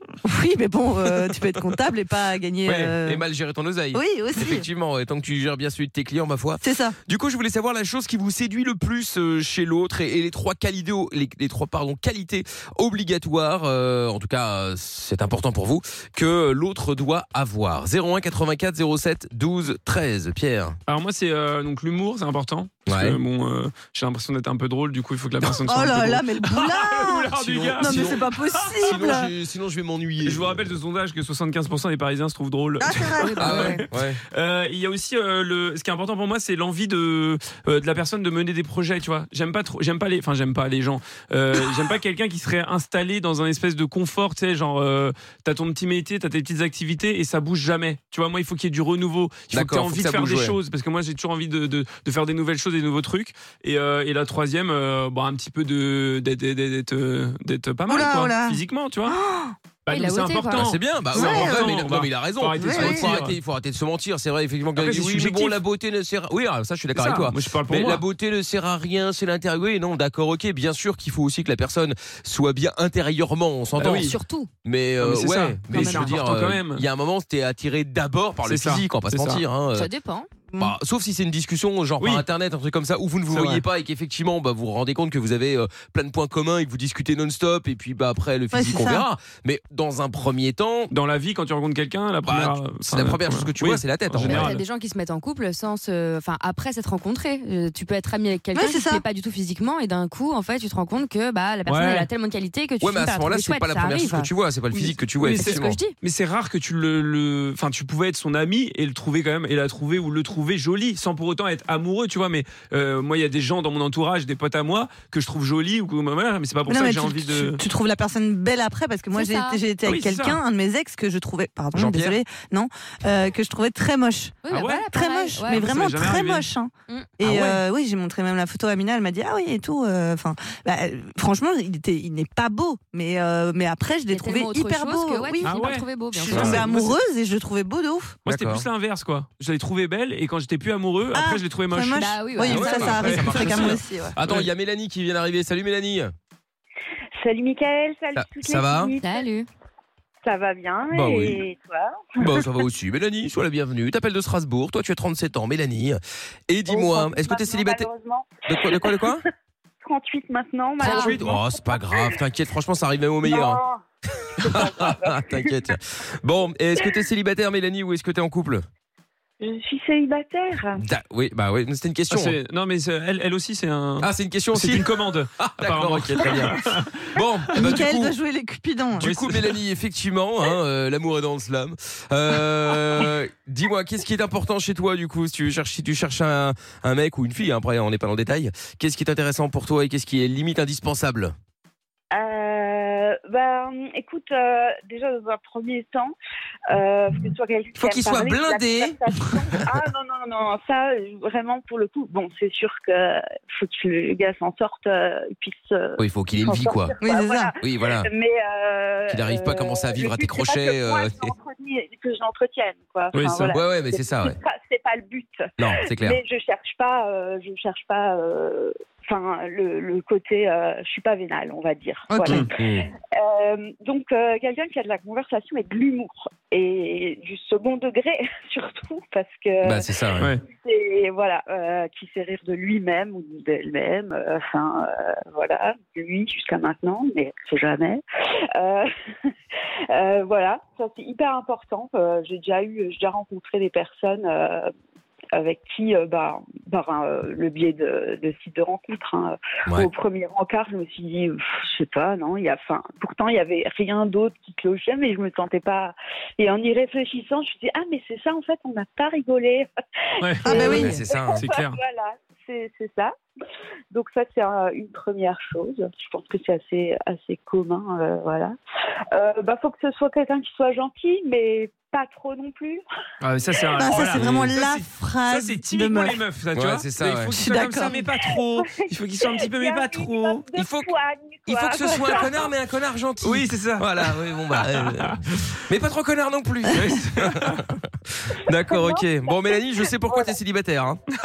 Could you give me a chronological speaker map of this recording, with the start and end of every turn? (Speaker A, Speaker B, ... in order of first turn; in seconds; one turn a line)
Speaker A: 0.2-3.2
Speaker B: 2.6-20.8
Speaker A: 3.9-4.7
Speaker A: 6.6-7.0
Speaker C: 20.9-29.0
Speaker B: 22.9-23.2
Speaker A: 25.7-29.3
Speaker B: 27.4-28.2
Speaker B: 28.8-30.7
Speaker C: 30.2-59.2
Speaker A: 32.8-33.4
Speaker D: 33.2-33.8
Speaker B: 33.4-34.2
Speaker B: 49.5-50.5
Speaker A: 57.9-59.5
Speaker C: 59.9-63.4
Speaker D: 59.9-60.7
Speaker B: 60.6-79.9
Speaker A: 61.1-61.7
Speaker A: 62.6-63.2
Speaker C: 64.8-65.6
Speaker C: 67.0-68.0
Speaker C: 73.8-74.1
Speaker D: 73.8-74.5
Speaker C: 75.0-76.8
Speaker D: 75.7-76.0
Speaker C: 78.5-79.4
Speaker D: 79.7-80.3
Speaker A: 80.5-80.8
Speaker B: 80.6-90.9
Speaker C: 82.0-82.2
Speaker C: 83.3-83.6
Speaker A: 88.5-89.1
Speaker C: 90.9-94.6
Speaker B: 92.3-94.5
Speaker D: 94.2-104.3
Speaker A: 98.5-99.0
Speaker C: 101.7-102.1
Speaker B: 102.8-105.8
Speaker C: 104.7-117.6
Speaker D: 105.3-105.9
Speaker A: 116.7-138.2
Speaker D: 119.1-119.6
Speaker C: 119.8-120.4
Speaker B: 121.8-122.2
Speaker D: 124.4-125.7
Speaker C: 124.5-124.9
Speaker C: 125.4-126.5
Speaker C: 127.2-127.6
Speaker D: 134.1-136.7
Speaker C: 135.4-137.0
Speaker B: 136.3-136.6
Speaker C: 138.2-144.5
Speaker B: 138.3-138.7
Speaker A: 141.1-144.2
Speaker D: 142.0-143.0
Speaker B: 142.5-146.1
Speaker E: 147.2-149.3
Speaker B: 148.2-148.9
Speaker D: 149.0-149.5
Speaker E: 150.2-152.5
Speaker B: 150.9-151.4
Speaker B: 152.2-157.9
Speaker E: 156.7-159.2
Speaker B: 158.5-159.2
Speaker E: 159.8-162.2
Speaker D: 160.8-161.2
Speaker B: 160.8-163.6
Speaker E: 163.2-165.6
Speaker B: 164.4-168.6
Speaker E: 169.4-170.8
Speaker B: 170.8-172.3
Speaker C: 172.1-177.0
Speaker B: 174.0-176.6
Speaker B: 177.1-178.1
Speaker A: 177.6-179.1
Speaker B: 179.0-191.3
Speaker C: 179.0-179.6
Speaker E: 192.1-196.2
Speaker E: 196.7-222.4
Speaker B: 197.8-199.0
Speaker B: 206.0-206.9
Speaker A: 207.0-207.5
Speaker B: 207.6-208.1
Speaker B: 209.1-211.3
Speaker C: 213.1-213.5
Speaker B: 213.5-214.4
Speaker B: 215.6-216.2
Speaker A: 222.1-222.4
Speaker B: 222.5-222.9
Speaker E: 223.1-229.9
Speaker B: 229.6-230.3
Speaker E: 230.5-238.0
Speaker E: 238.6-238.9
Speaker E: 239.9-244.7
Speaker E: 245.3-259.7
Speaker C: 260.2-260.7
Speaker A: 260.4-261.0
Speaker E: 260.4-263.1
Speaker B: 260.6-261.4
Speaker C: 261.4-261.8
Speaker E: 263.9-268.6
Speaker E: 269.1-272.8
Speaker C: 273.2-280.4
Speaker A: 273.8-276.2
Speaker B: 274.2-274.5
Speaker B: 276.6-277.4
Speaker A: 277.3-278.1
Speaker E: 278.6-282.5
Speaker B: 280.6-280.9
Speaker B: 281.5-291.0
Speaker C: 283.2-285.2
Speaker C: 286.8-287.6
Speaker E: 288.5-290.4